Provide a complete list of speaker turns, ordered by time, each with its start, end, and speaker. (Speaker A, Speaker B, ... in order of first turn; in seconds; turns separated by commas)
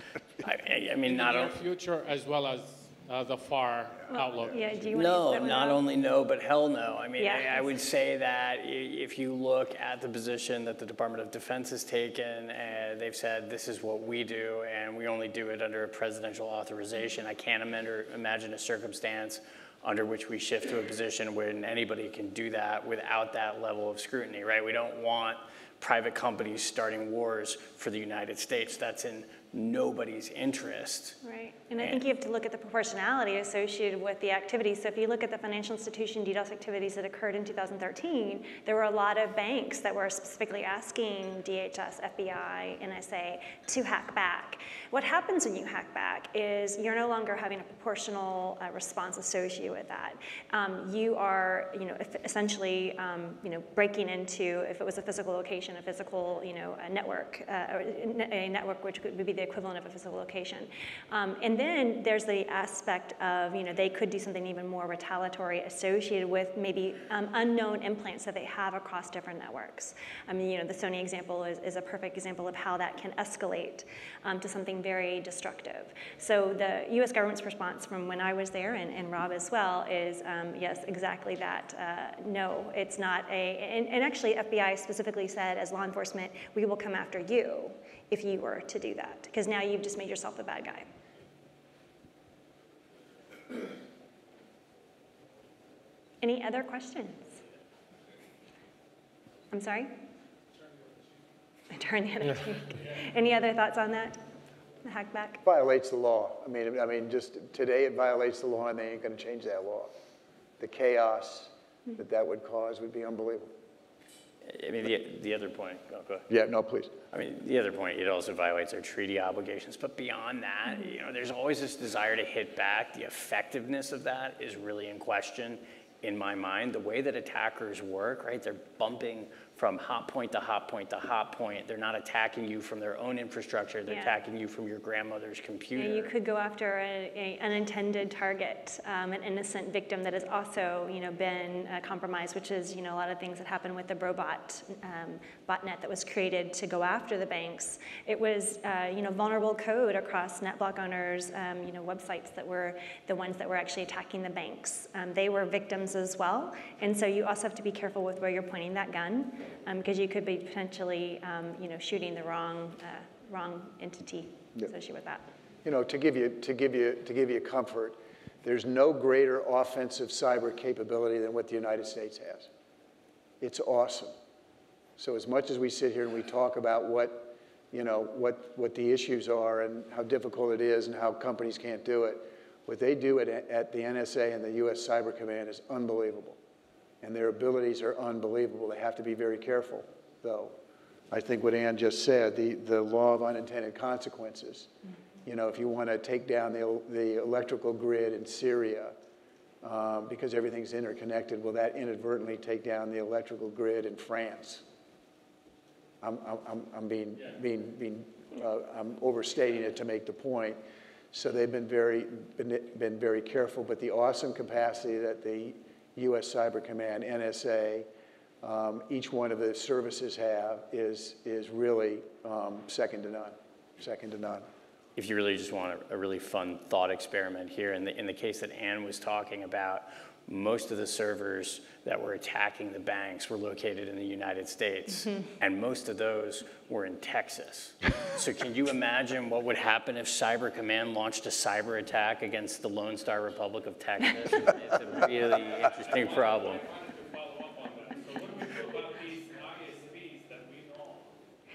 Speaker A: 0.4-1.6, Speaker B: 1.1-4.7, Speaker C: 4.1-5.8, Speaker A: 5.0-31.2, Speaker C: 7.2-7.6, Speaker C: 31.2-90.9, Speaker C: 96.2-97.4, Speaker C: 99.5-99.9, Speaker B: 100.6-101.0, Speaker C: 101.7-104.2, Speaker C: 104.8-105.4, Speaker D: 105.4-109.9, Speaker D: 110.6-113.5, Speaker A: 114.5-116.3, Speaker D: 116.3-116.9, Speaker A: 117.1-136.1, Speaker C: 133.9-134.2, Speaker C: 135.8-165.3, Speaker D: 165.6-172.5, Speaker D: 173.4-174.1, Speaker D: 175.0-186.4, Speaker D: 187.0-190.6, Speaker D: 191.1-194.7, Speaker D: 195.2-198.9, Speaker D: 199.6-204.6, Speaker D: 206.0-210.6, Speaker D: 211.1-217.9, Speaker D: 218.4-224.4, Speaker A: 225.0-246.6, Speaker B: 245.6-251.1